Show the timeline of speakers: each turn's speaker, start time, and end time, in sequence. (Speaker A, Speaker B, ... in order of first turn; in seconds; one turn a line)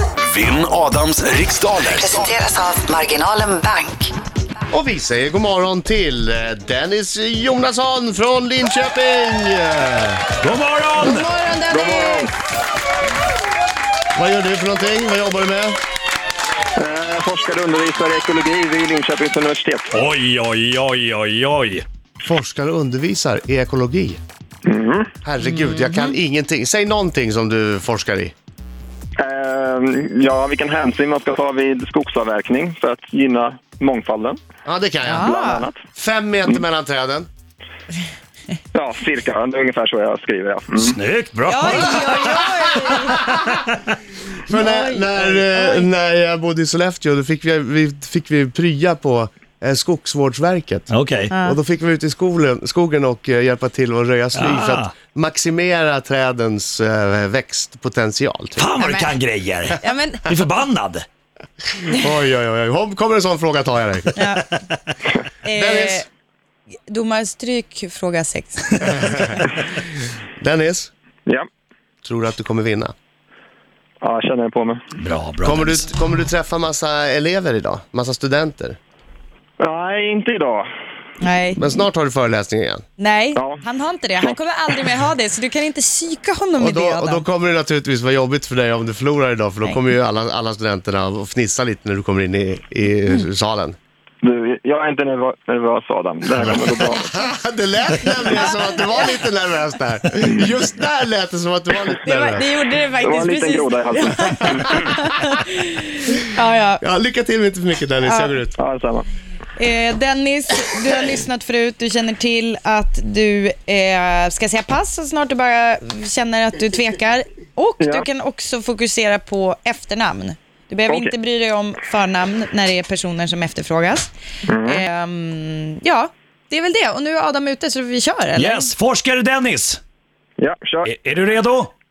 Speaker A: 0.2-2.4
Speaker B: 2.0-4.1
Speaker C: 4.7-10.2
Speaker D: 10.4-11.3
Speaker E: 11.0-12.3
Speaker F: 11.7-12.3
Speaker C: 14.2-15.8
Speaker F: 16.8-19.9
Speaker D: 19.9-21.9
Speaker C: 22.2-24.2
Speaker F: 24.7-25.1
Speaker C: 25.2-28.3
Speaker E: 25.4-26.1
Speaker F: 29.2-34.4
Speaker C: 34.6-35.3
Speaker E: 35.0-35.7
Speaker F: 35.2-35.8
Speaker C: 36.0-37.3
Speaker F: 38.7-41.0
Speaker D: 40.8-43.8
Speaker E: 41.5-43.2
Speaker C: 44.5-50.9
Speaker E: 44.5-45.9
Speaker D: 50.9-51.3
Speaker E: 51.3-51.6
Speaker C: 51.4-58.7
Speaker D: 54.4-54.9
Speaker D: 58.6-61.1
Speaker E: 58.8-59.1
Speaker E: 59.8-60.3
Speaker C: 61.9-64.2
Speaker E: 64.2-64.5
Speaker E: 65.4-66.0
Speaker C: 65.5-66.0
Speaker E: 66.9-69.3
Speaker C: 69.0-69.3
Speaker C: 70.4-70.9
Speaker C: 72.0-72.9
Speaker F: 74.0-74.8
Speaker D: 75.0-75.8
Speaker C: 75.4-78.8
Speaker F: 79.6-80.7
Speaker E: 81.2-81.6
Speaker C: 81.6-82.8
Speaker E: 83.0-87.3
Speaker F: 83.4-83.6
Speaker C: 86.6-93.8
Speaker F: 94.2-97.1
Speaker C: 96.4-102.5
Speaker E: 98.3-99.1
Speaker E: 102.0-106.8
Speaker F: 103.0-104.8
Speaker C: 106.8-108.5
Speaker E: 108.0-108.4
Speaker F: 108.6-109.1
Speaker E: 109.6-124.1
Speaker F: 124.5-124.8
Speaker E: 124.7-128.7
Speaker D: 128.4-129.8
Speaker F: 130.4-130.9
Speaker D: 130.8-131.7